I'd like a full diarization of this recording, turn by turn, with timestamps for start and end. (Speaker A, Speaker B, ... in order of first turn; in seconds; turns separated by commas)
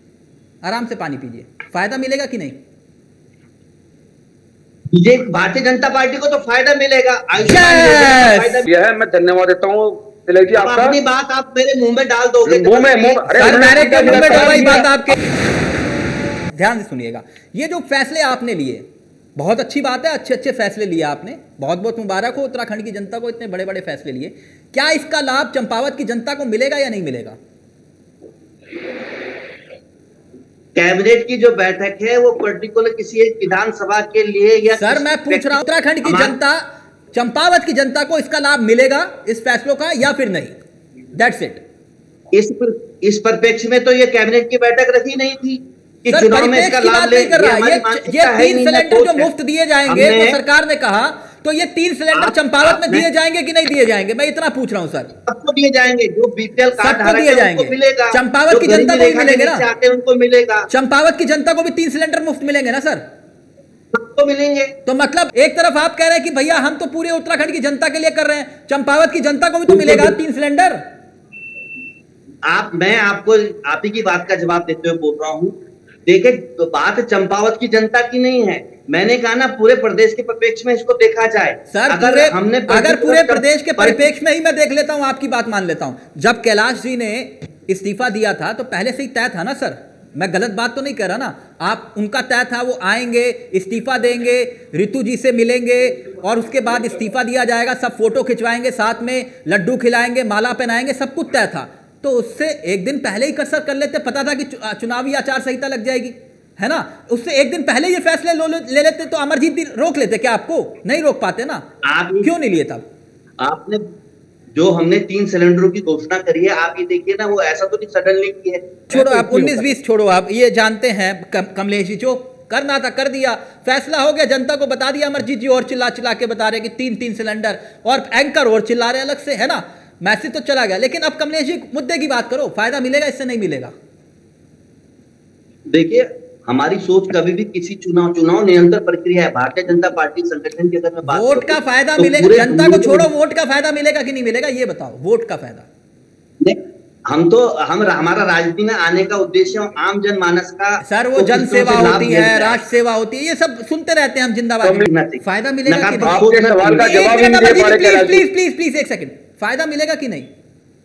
Speaker A: 0.6-2.5, Speaker B: 4.9-8.7, Speaker A: 7.4-8.6, Speaker C: 8.6-11.0, Speaker B: 10.5-14.7, Speaker C: 12.4-14.9, Speaker A: 13.4-15.2, Speaker A: 16.5-18.8, Speaker A: 19.4-27.4, Speaker B: 30.7-36.4, Speaker A: 34.7-36.6, Speaker A: 37.1-40.5, Speaker A: 41.1-41.6, Speaker B: 42.3-49.3, Speaker A: 46.1-55.1, Speaker B: 49.9-50.4, Speaker B: 52.1-53.0, Speaker B: 55.2-60.7, Speaker A: 56.8-59.6, Speaker A: 60.7-63.0, Speaker B: 63.9-64.7, Speaker A: 64.8-70.8, Speaker B: 69.7-70.1, Speaker B: 72.5-75.5, Speaker B: 76.1-84.1, Speaker A: 81.7-111.6, Speaker B: 111.8-112.3, Speaker A: 112.2-112.8, Speaker B: 113.4-113.8, Speaker B: 114.5-119.6, Speaker A: 118.9-133.7, Speaker B: 135.7-143.1, Speaker A: 141.1-145.7, Speaker B: 146.4-152.6, Speaker A: 150.8-156.2, Speaker C: 154.6-154.9, Speaker B: 154.8-156.9, Speaker C: 156.0-158.2, Speaker A: 156.8-160.3